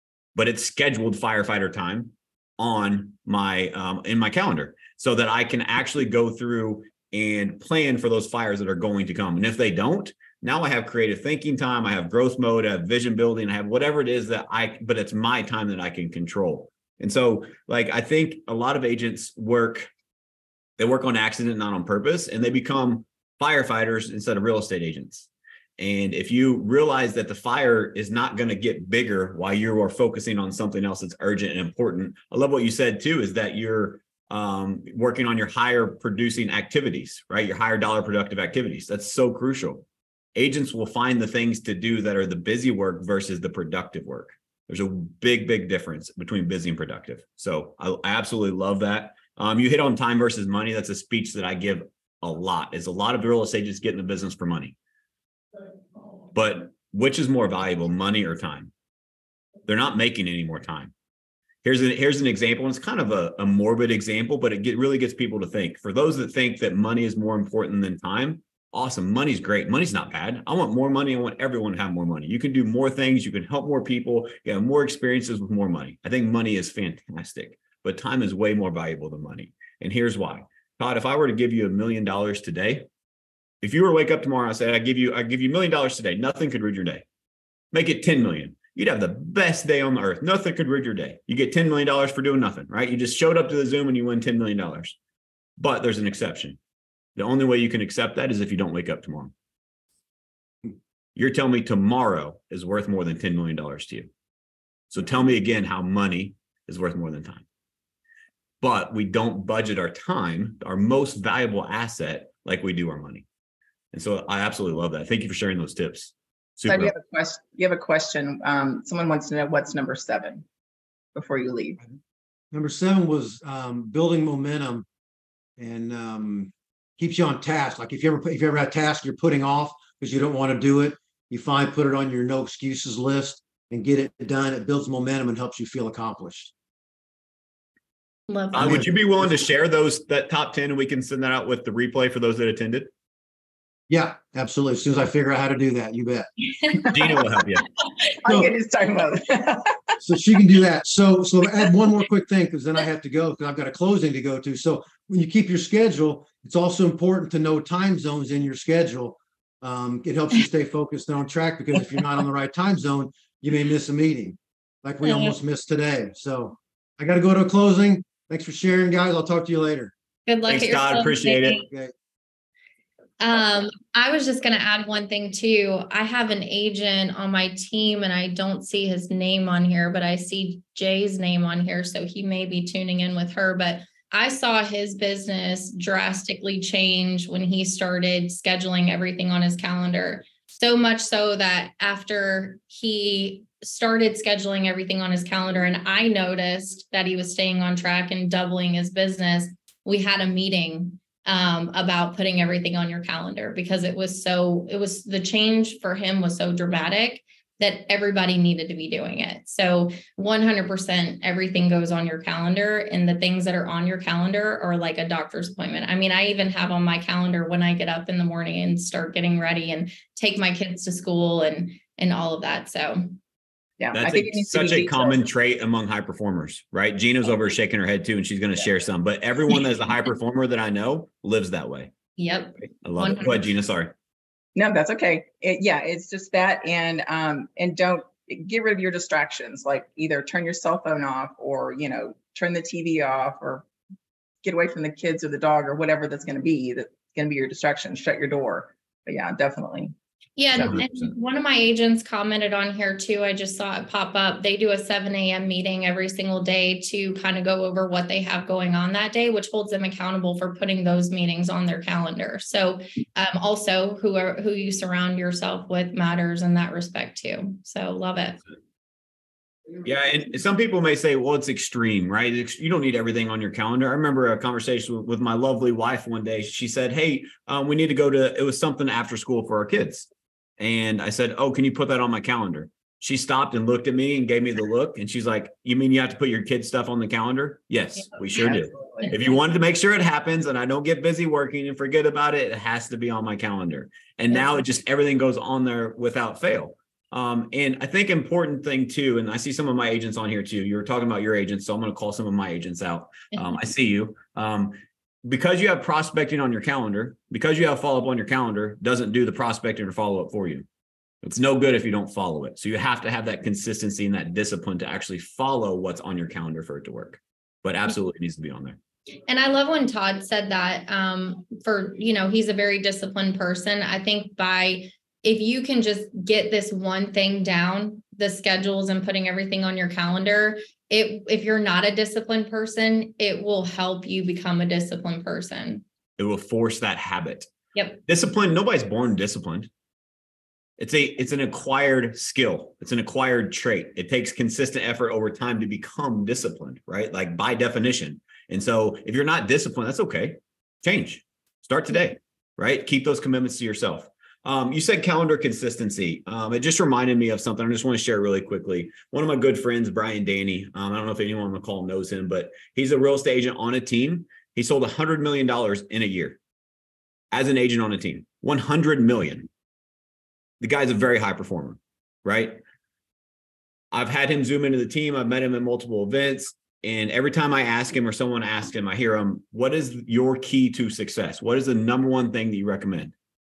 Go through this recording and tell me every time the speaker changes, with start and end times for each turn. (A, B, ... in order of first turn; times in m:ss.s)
0:00.4-0:19.9 A
0:20.8-0:54.8 A
0:56.3-0:58.7 A
0:59.7-1:00.9 A
1:01.6-1:22.9 A
1:23.6-1:27.0 A
1:27.7-1:35.0 A
1:35.6-1:36.6 A
1:37.2-1:39.3 A
1:41.2-1:44.1 A
1:44.9-1:47.4 A
1:48.6-1:53.2 A
1:53.9-1:56.9 A
1:56.7-2:00.4 B
2:01.2-2:01.8 B
2:02.5-2:04.9 C
2:05.6-2:16.5 C
2:18.3-2:18.9 D
2:18.5-2:22.9 A
2:18.6-2:18.9 C
2:23.9-2:26.3 C
2:26.9-2:27.7 A
2:28.2-2:30.0 B
2:28.3-2:28.5 C
2:30.0-2:49.9 C
2:45.0-2:45.4 D
2:50.3-2:51.6 D
2:50.5-2:51.6 A
2:53.2-3:43.2 D
3:43.8-3:45.2 B
3:43.9-3:51.9 A
3:52.2-3:53.5 D
3:52.6-3:53.9 A
3:54.6-4:03.6 B
4:04.4-4:09.9 B
4:10.4-4:28.4 D
4:10.6-4:11.1 A
4:29.8-4:40.1 A
4:40.6-5:10.7 A
4:48.4-4:49.1 B
5:11.2-5:18.8 A
5:19.3-5:35.8 D
5:36.2-5:37.5 A
5:37.8-5:38.0 D
5:38.1-5:39.7 A
5:40.8-6:06.4 A
6:07.3-6:09.5 A
6:10.6-6:12.6 A
6:13.9-6:23.1 A